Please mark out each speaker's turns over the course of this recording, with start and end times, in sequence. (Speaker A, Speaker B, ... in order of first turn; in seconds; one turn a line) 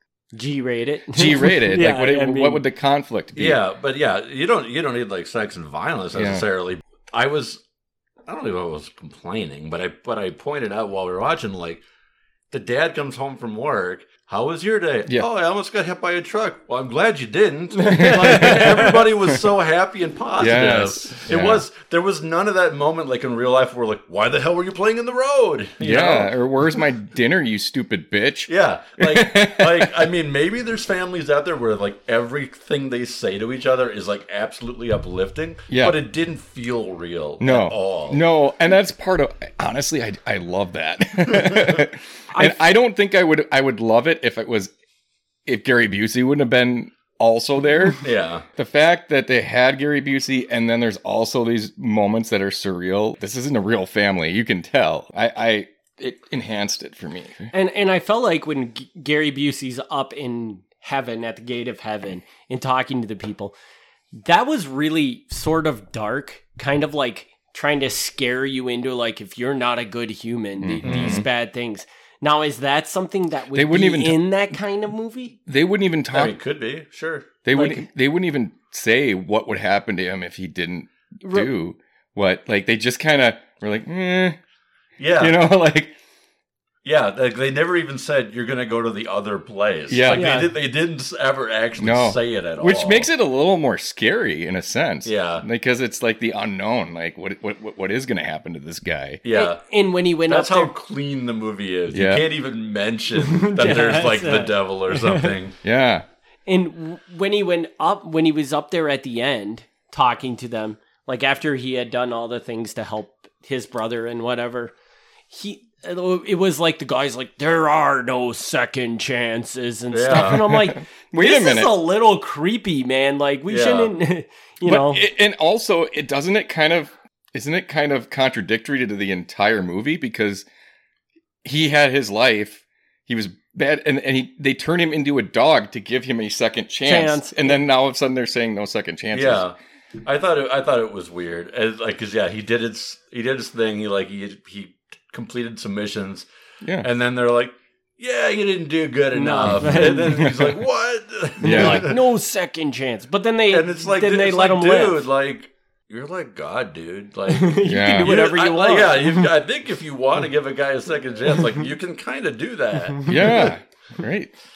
Speaker A: 0.3-2.6
Speaker B: 1.1-3.6
Speaker C: 3.4-7.6
Speaker B: 6.1-6.5
Speaker C: 8.3-11.8
Speaker C: 12.5-26.3
Speaker B: 17.9-18.8
Speaker A: 17.9-18.9
Speaker B: 20.4-21.6
Speaker B: 25.8-30.1
Speaker C: 28.5-38.2
Speaker B: 35.7-36.0
Speaker B: 37.4-44.7
Speaker A: 42.3-42.6
Speaker B: 45.5-57.5
Speaker C: 48.0-48.5
Speaker A: 57.5-63.5
Speaker A: 64.2-75.4
Speaker B: 70.6-71.3
Speaker C: 70.8-71.2
Speaker B: 73.5-74.2
Speaker B: 75.5-76.3
Speaker C: 76.1-77.4
Speaker B: 77.5-84.4
Speaker A: 77.5-77.8
Speaker A: 81.2-81.5
Speaker C: 85.0-85.4
Speaker B: 85.2-86.0
Speaker C: 86.8-93.1
Speaker B: 89.9-90.3
Speaker A: 90.1-90.5
Speaker B: 91.8-99.2
Speaker C: 95.0-95.5
Speaker C: 99.2-99.6
Speaker A: 99.3-100.7
Speaker C: 100.3-105.6
Speaker B: 101.9-102.2
Speaker A: 103.3-105.3
Speaker B: 105.6-106.1
Speaker A: 106.5-114.7
Speaker A: 115.3-125.0
Speaker C: 119.9-120.4
Speaker B: 120.1-121.8
Speaker C: 123.5-124.0
Speaker B: 124.7-130.5
Speaker B: 131.4-139.4
Speaker A: 136.8-137.6
Speaker C: 139.1-146.3
Speaker B: 146.6-146.9
Speaker C: 146.8-152.0
Speaker A: 149.1-150.2
Speaker B: 149.5-150.6
Speaker B: 151.4-151.9
Speaker A: 151.4-155.0
Speaker C: 153.5-163.5
Speaker A: 157.3-159.3
Speaker B: 157.6-158.1
Speaker B: 163.1-164.3